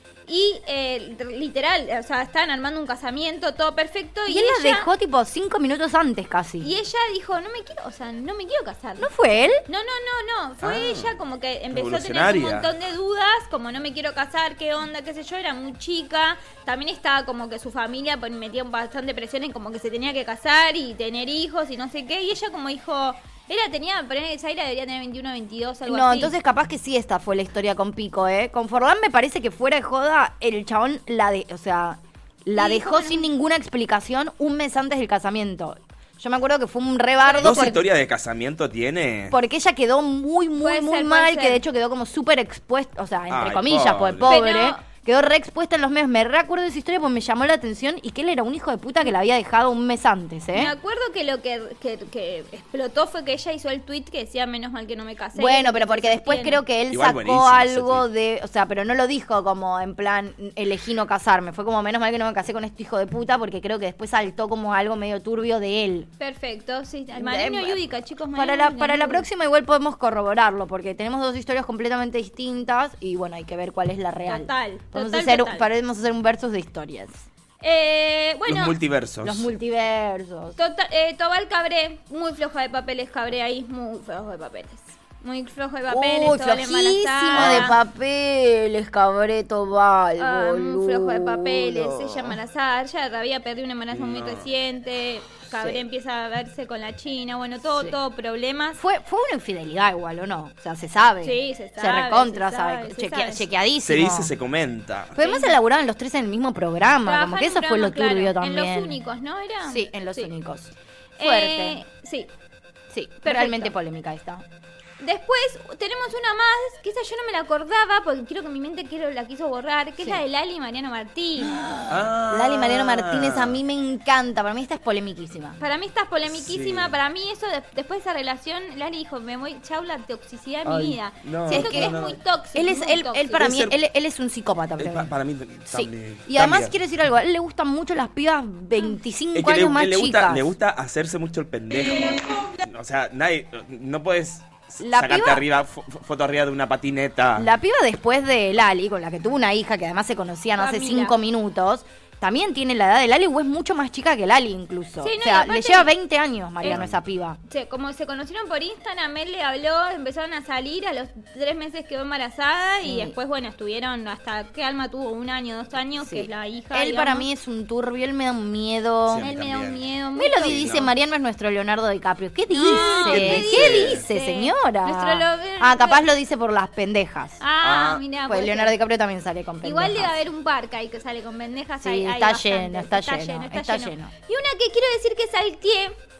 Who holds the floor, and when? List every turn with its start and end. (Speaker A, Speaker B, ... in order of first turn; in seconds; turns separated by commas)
Speaker A: 0.2-4.9, Speaker B: 4.3-6.7, Speaker A: 6.6-9.1, Speaker B: 9.0-9.7, Speaker A: 9.6-26.4, Speaker C: 10.6-11.2, Speaker C: 11.7-12.7, Speaker B: 25.9-37.8, Speaker A: 32.5-33.3, Speaker A: 37.2-37.8, Speaker C: 37.4-39.4, Speaker B: 39.3-50.7, Speaker A: 40.6-41.6, Speaker C: 43.3-44.4, Speaker A: 44.3-44.8, Speaker A: 50.5-56.6, Speaker B: 55.3-66.1, Speaker C: 56.9-58.1, Speaker A: 66.2-69.2, Speaker B: 67.1-77.2, Speaker A: 74.3-75.7, Speaker A: 77.6-78.8, Speaker C: 78.5-79.5, Speaker B: 79.2-80.6, Speaker A: 80.5-87.7, Speaker B: 85.9-92.4, Speaker C: 87.3-87.7, Speaker A: 90.2-98.8, Speaker C: 93.9-94.5, Speaker B: 95.5-95.8, Speaker B: 97.7-98.0, Speaker B: 98.8-104.3, Speaker A: 101.2-103.5, Speaker C: 103.8-105.2, Speaker B: 105.2-109.0, Speaker A: 105.2-105.6, Speaker A: 107.0-110.3, Speaker B: 109.6-111.8, Speaker A: 111.2-112.3, Speaker B: 112.9-114.4, Speaker A: 113.2-113.7, Speaker A: 115.0-121.6, Speaker B: 120.0-120.2, Speaker B: 121.4-125.6, Speaker C: 121.9-123.6, Speaker A: 125.6-133.5, Speaker C: 126.3-127.0, Speaker C: 130.6-132.2, Speaker B: 131.5-132.0, Speaker B: 132.5-135.1, Speaker C: 133.3-133.8, Speaker C: 134.8-136.8, Speaker B: 135.7-140.5, Speaker C: 139.3-147.5, Speaker B: 144.8-145.4, Speaker B: 147.3-157.4, Speaker A: 150.6-151.1, Speaker A: 155.0-155.9, Speaker C: 156.7-157.0, Speaker A: 157.5-167.3, Speaker B: 162.8-163.2, Speaker B: 166.0-169.3, Speaker C: 169.1-169.9, Speaker A: 169.2-170.6, Speaker B: 170.2-177.4, Speaker C: 170.4-170.9, Speaker A: 172.5-176.1, Speaker C: 172.6-174.0, Speaker A: 177.4-178.8, Speaker C: 177.6-178.0, Speaker B: 178.2-180.2, Speaker A: 179.6-185.9, Speaker B: 181.8-184.1